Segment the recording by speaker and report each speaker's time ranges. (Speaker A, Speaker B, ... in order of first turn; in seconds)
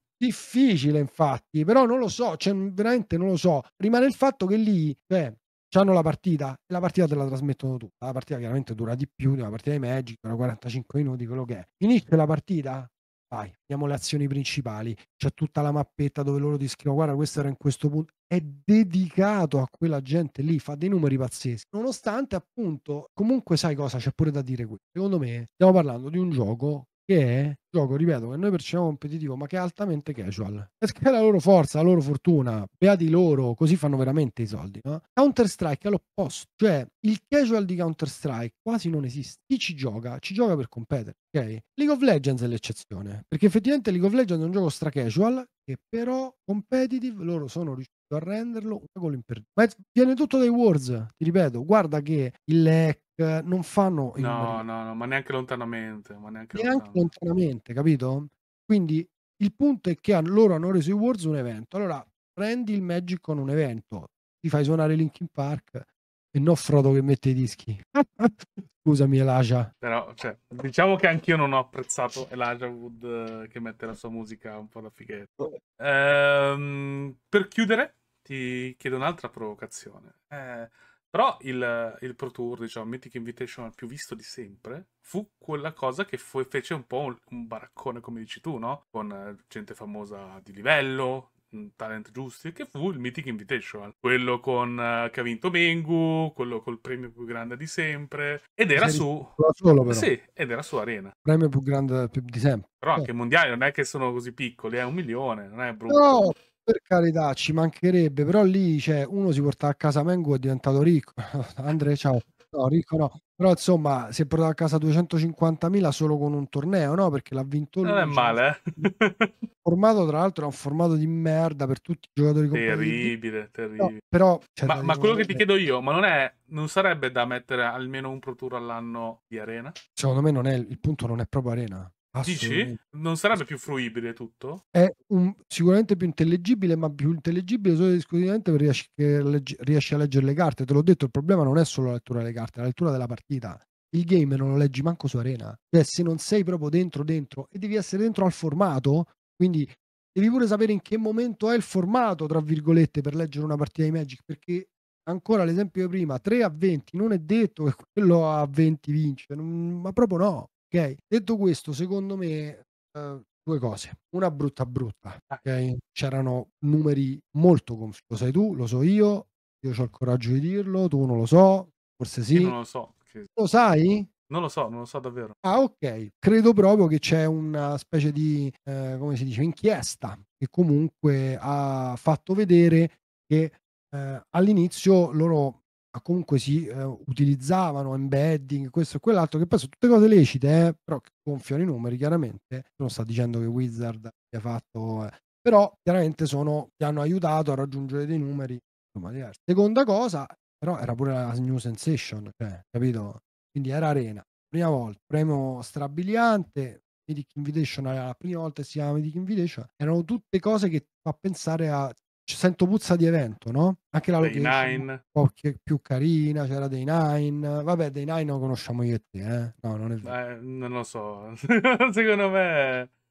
Speaker A: 0.2-54.6, 56.5-69.7, 98.8-100.1, 101.2-103.1, 105.9-118.4, 119.6-123.1, 123.8-125.4, 129.9-132.8, 134.7-172.6, 173.3-174.1, 175.4-220.2
Speaker B: 54.1-57.0, 69.8-101.1, 102.8-106.3, 117.8-119.5, 122.5-124.0, 124.6-129.8, 132.2-134.6, 172.3-173.3, 174.3-175.3, 214.2-215.0, 220.0-222.9